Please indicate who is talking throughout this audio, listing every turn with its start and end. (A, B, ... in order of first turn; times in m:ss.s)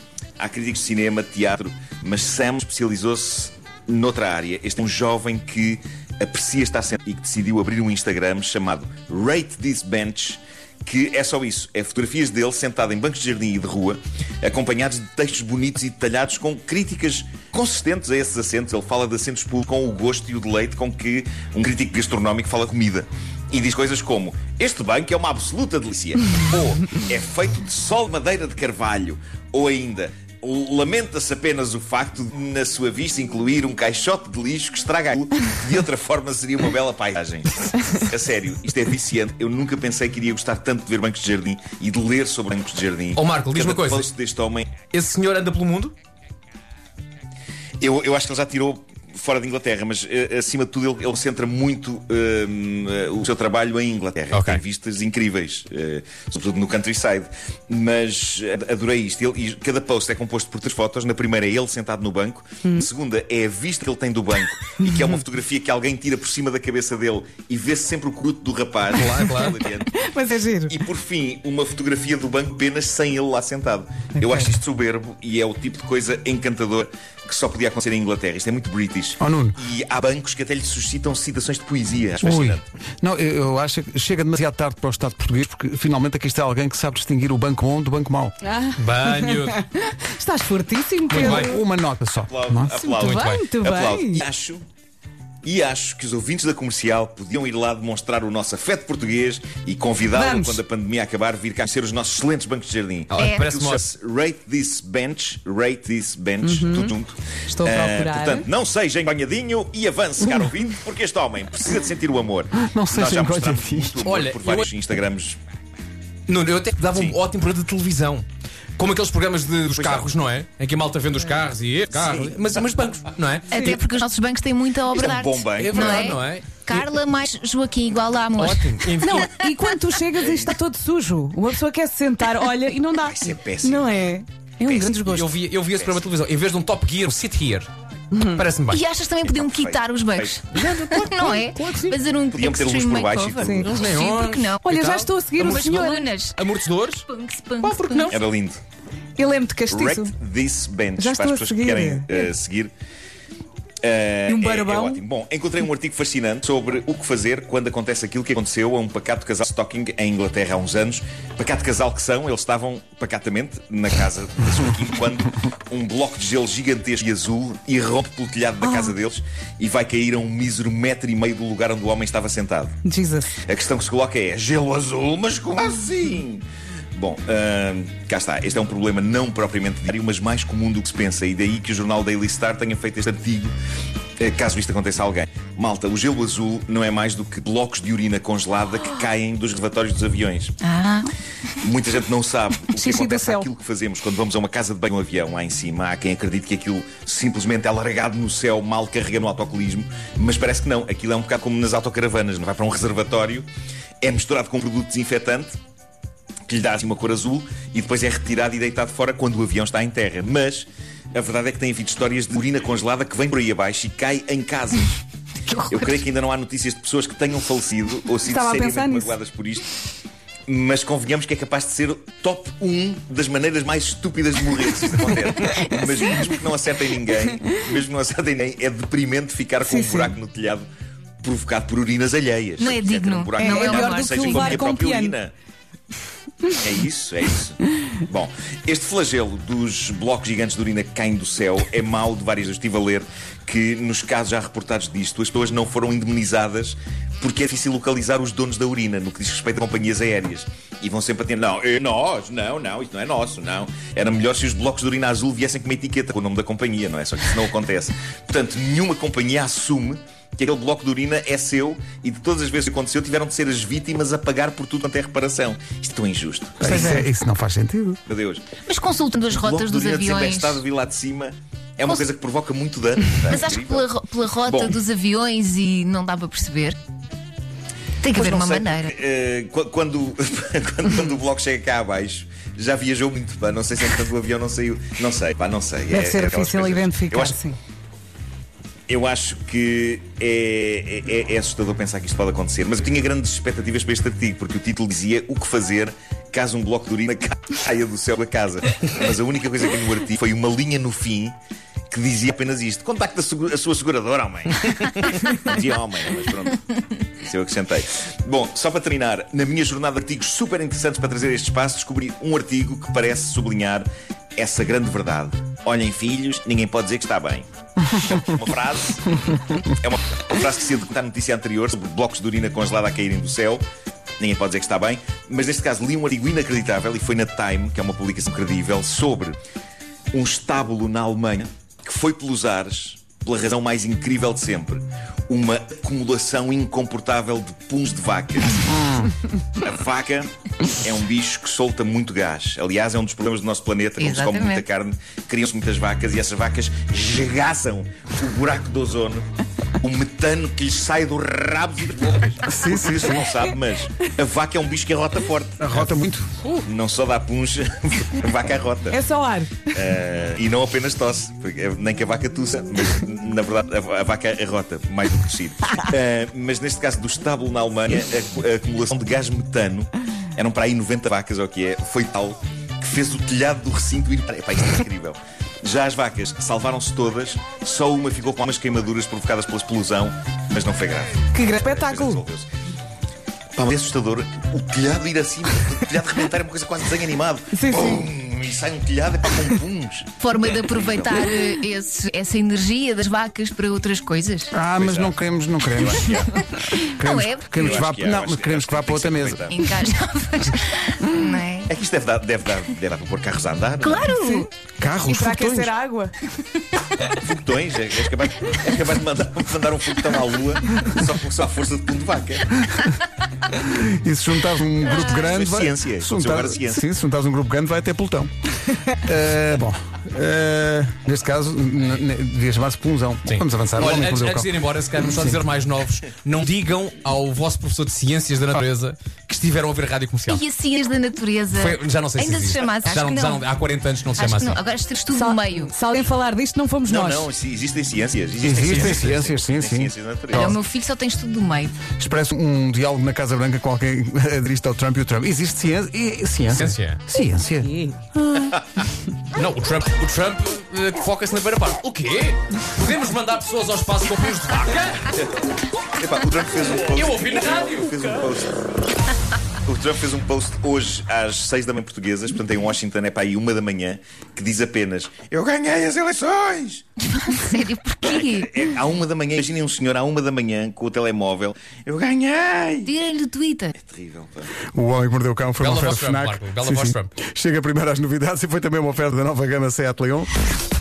0:00.4-0:44.7 A
0:43.1-0:44.1 B
0:44.9-0:45.9 B
0:47.8-1:09.9 A
0:54.3-0:54.6 B
1:09.0-1:09.5 B
1:09.8-1:10.7 C
1:10.7-1:22.6 A
1:19.2-1:19.6 D
1:22.2-1:28.3 D
1:28.4-1:31.6 C
1:28.8-1:29.6 B
1:31.1-1:32.8 D
1:31.1-1:31.5 B
1:32.2-1:34.6 A
1:32.7-1:34.2 C
1:33.0-1:33.4 B
1:35.4-1:55.4 A
1:40.1-1:40.6 C
1:43.1-1:43.8 B
1:43.2-1:43.5 E
1:46.4-1:47.0 C
1:47.5-1:48.5 C
1:52.6-1:54.0 D
1:54.0-1:54.7 B
1:56.3-1:58.2 B
1:56.9-1:57.2 A
1:58.8-2:03.8 B
1:59.7-2:00.1 A
2:03.5-2:08.8 E
2:04.9-2:06.2 A
2:05.6-2:06.8 B
2:08.4-2:09.3 B
2:08.9-2:15.3 C
2:10.2-2:10.6 A
2:13.0-2:14.0 A
2:14.6-2:16.1 A
2:15.1-2:18.8 B
2:18.1-2:18.4 C
2:18.7-2:24.6 E
2:19.2-2:20.4 A
2:20.5-2:22.0 B
2:22.3-2:23.9 A
2:23.4-2:23.8 C
2:23.6-2:25.8 B
2:24.6-2:26.1 C
2:25.4-2:26.4 E
2:26.3-2:27.1 B
2:27.1-2:28.2 E
2:27.9-2:28.2 C
2:28.1-2:28.6 A
2:29.2-2:30.1 C
2:29.7-2:32.7 A
2:31.0-2:32.3 C
2:33.8-2:52.8 A
2:34.3-2:35.0 C
2:48.6-2:48.9 C
2:52.8-2:53.3 C
2:53.4-3:03.5 A
3:04.2-3:10.6 A
3:10.6-3:11.1 E
3:11.6-3:23.5 A
3:12.7-3:13.5 C
3:24.0-3:25.6 A
3:26.5-3:35.0 A
3:35.6-3:36.0 E
3:35.7-3:39.7 A
3:38.2-3:39.2 C
3:40.5-3:50.6 A
3:45.5-3:46.3 E
3:49.6-3:50.2 C
3:51.2-3:55.3 A
3:52.6-3:54.6 E
3:53.3-3:55.2 C
3:56.6-4:26.9 A
4:26.6-4:28.0 D
4:26.6-4:27.0 C
4:28.1-4:28.6 A
4:28.6-4:30.6 E
4:29.3-4:33.9 A
4:31.8-4:32.1 E
4:33.2-4:36.8 E
4:34.5-4:34.8 A
4:38.0-4:38.9 E
4:38.1-4:47.4 A
4:45.9-4:47.6 C
4:48.9-5:01.4 A
5:01.9-5:23.6 A
5:24.2-5:29.4 A
5:30.1-5:38.7 A
5:38.7-5:39.0 D
5:39.6-5:49.3 A
5:44.0-5:44.6 E
5:49.8-5:56.0 A
5:52.4-5:53.3 D
5:55.6-5:56.3 D
5:56.6-5:59.0 A
5:58.9-5:59.8 C
5:59.7-6:22.5 A
6:21.3-6:22.2 C
6:23.6-6:31.5 A
6:27.5-6:28.0 C
6:30.2-6:34.5 E
6:34.5-6:36.2 D
6:34.8-6:36.4 A
6:36.3-6:37.7 E
6:36.7-6:39.5 D
6:37.5-6:39.5 A
6:39.4-6:41.7 E
6:41.7-6:44.1 A
6:43.8-6:44.5 E
6:44.0-6:44.5 C
6:44.8-6:45.7 D
6:45.0-6:46.2 C
6:47.1-6:52.6 A
6:53.5-6:58.3 D
6:55.2-6:56.8 A
6:59.0-7:04.5 D
7:03.2-7:10.4 B
7:05.0-7:05.4 D
7:10.3-7:13.4 E
7:11.5-7:14.6 B
7:14.2-7:15.8 E
7:15.1-7:17.3 C
7:16.9-7:20.5 A
7:18.4-7:20.6 D
7:20.3-7:21.8 E
7:21.9-7:27.8 D
7:26.5-7:27.0 B
7:28.4-7:28.8 A
7:29.3-7:35.1 B
7:36.0-7:38.6 A
7:36.8-7:38.1 B
7:39.6-7:46.8 A
7:47.0-7:48.6 E
7:48.1-7:53.0 A
7:52.8-7:53.8 E
7:53.8-7:54.5 A
7:54.7-8:00.3 D
7:55.6-7:57.1 B